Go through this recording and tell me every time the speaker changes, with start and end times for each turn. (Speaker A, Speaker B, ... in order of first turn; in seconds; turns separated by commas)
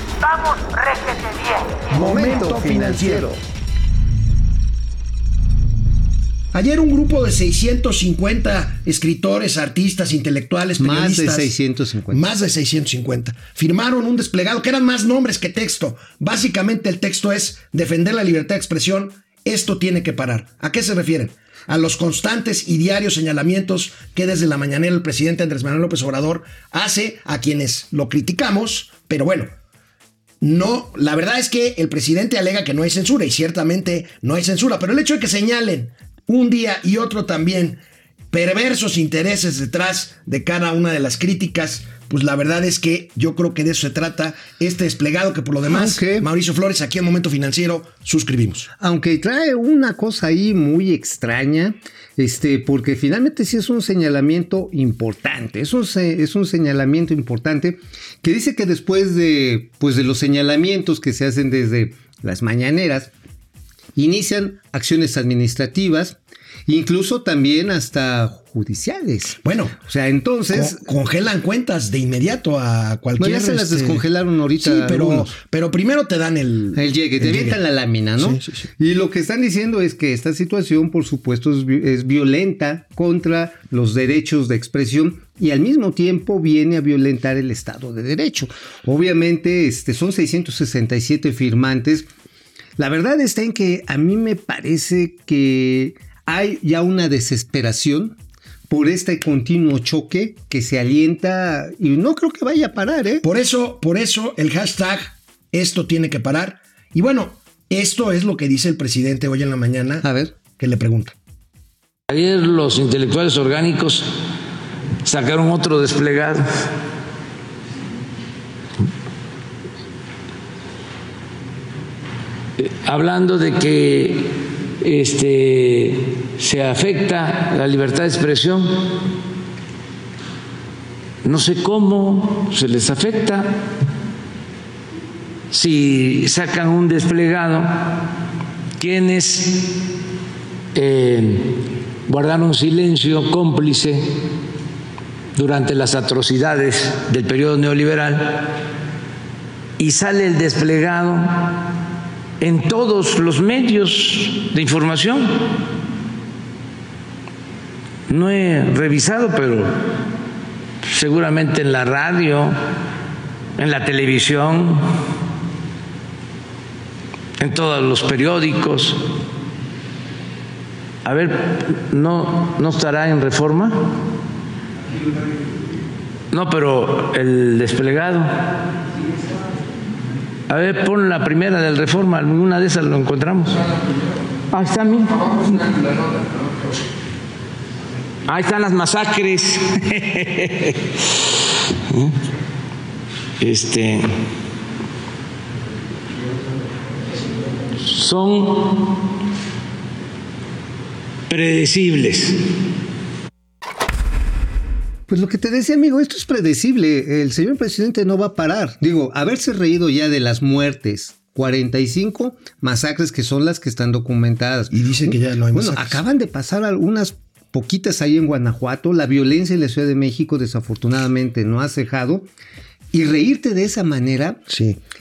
Speaker A: 0.4-3.4, Speaker B: 1.9-3.3, Speaker B: 6.5-11.5, Speaker A: 10.8-12.2, Speaker B: 12.1-29.5, Speaker B: 30.4-48.7, Speaker A: 45.7-46.3, Speaker A: 48.8-63.1, Speaker A: 64.0-70.8, Speaker B: 69.4-69.8, Speaker B: 70.5-74.0, Speaker A: 73.2-75.3, Speaker B: 74.6-77.6, Speaker A: 76.7-92.1, Speaker B: 78.2-78.6, Speaker A: 92.8-98.2, Speaker A: 98.7-103.2, Speaker B: 103.2-111.1, Speaker A: 110.0-110.4, Speaker C: 112.1-114.2, Speaker C: 115.0-116.7, Speaker C: 122.6-129.0, Speaker C: 131.2-133.5, Speaker C: 135.5-137.9, Speaker C: 138.8-139.6, Speaker C: 140.7-144.1, Speaker C: 145.3-148.5, Speaker C: 149.8-151.7, Speaker C: 152.4-155.5, Speaker C: 158.1-159.8, Speaker C: 160.8-162.6, Speaker C: 163.6-165.0, Speaker C: 167.4-169.0, Speaker C: 171.0-173.9, Speaker C: 176.3-178.5, Speaker C: 180.5-183.6, Speaker C: 184.5-186.0, Speaker C: 188.2-191.3, Speaker C: 191.9-192.2, Speaker C: 193.4-194.1, Speaker C: 197.8-198.8, Speaker C: 201.3-202.4, Speaker A: 205.1-222.3, Speaker B: 214.7-216.0, Speaker A: 222.9-224.5, Speaker B: 224.5-224.8